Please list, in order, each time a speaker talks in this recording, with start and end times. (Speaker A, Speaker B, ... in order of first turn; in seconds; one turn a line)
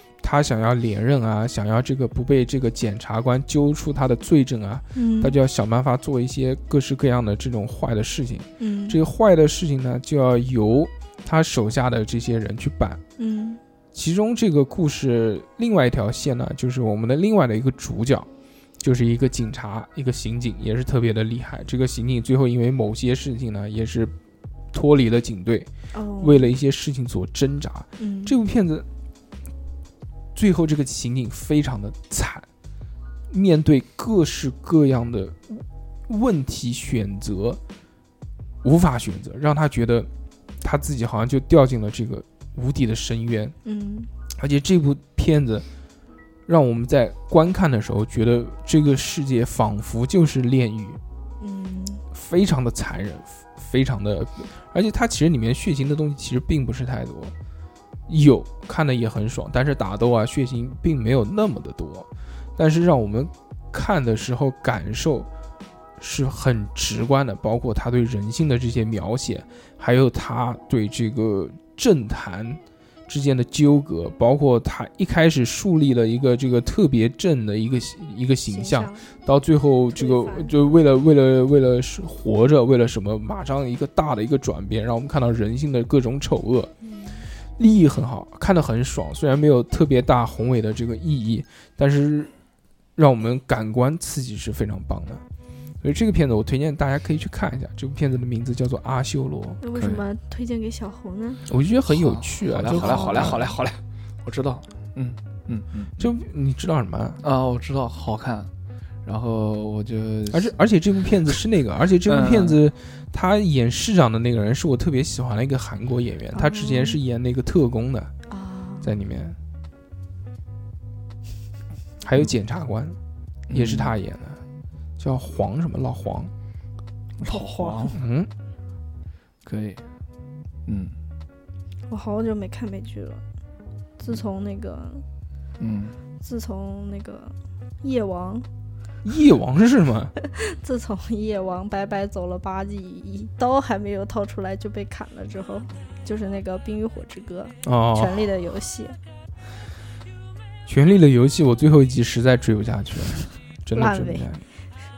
Speaker A: 0.2-13.0
Speaker B: 4.9-5.3
Speaker B: 8.6-9.0
Speaker B: 13.2-13.6
Speaker A: 13.9-18.3
Speaker A: 18.8-24.1
Speaker A: 24.7-25.7
Speaker B: 25.9-26.5
Speaker A: 26.2-28.9
Speaker B: 28.0-28.3
Speaker A: 30.3-32.5
Speaker A: 33.3-37.6
Speaker A: 38.6-40.1
Speaker A: 40.6-43.5
Speaker B: 43.6-44.1
Speaker A: 44.3-45.6
Speaker A: 46.5-51.0
Speaker B: 51.4-52.0
Speaker A: 52.1-57.3
Speaker A: 58.1-65.3
Speaker A: 66.0-86.7
Speaker B: 78.5-79.0
Speaker B: 79.9-80.5
Speaker B: 86.8-87.3
Speaker A: 87.6-92.3
Speaker A: 93.0-95.2
Speaker A: 95.8-99.6
Speaker B: 99.6-101.4
Speaker C: 99.7-100.0
Speaker A: 101.5-103.5
Speaker C: 101.9-106.1
Speaker B: 102.7-103.3
Speaker A: 106.0-107.2
Speaker C: 107.2-108.5
Speaker C: 109.0-110.5
Speaker A: 110.3-118.1
Speaker C: 112.0-112.6
Speaker B: 116.3-117.0
Speaker B: 118.3-118.9
Speaker A: 118.8-119.3
Speaker A: 122.0-123.0
Speaker C: 123.5-123.9
Speaker A: 123.5-124.4
Speaker A: 125.0-126.3
Speaker C: 127.2-128.0
Speaker B: 127.2-127.9
Speaker A: 127.9-128.3
Speaker C: 129.4-129.8
Speaker C: 130.7-130.9
Speaker B: 131.9-133.2
Speaker B: 134.0-135.0
Speaker C: 135.6-135.9
Speaker B: 136.2-138.5
Speaker A: 139.0-140.1
Speaker B: 140.2-149.0
Speaker A: 147.6-148.2
Speaker A: 150.7-154.4
Speaker B: 153.7-154.3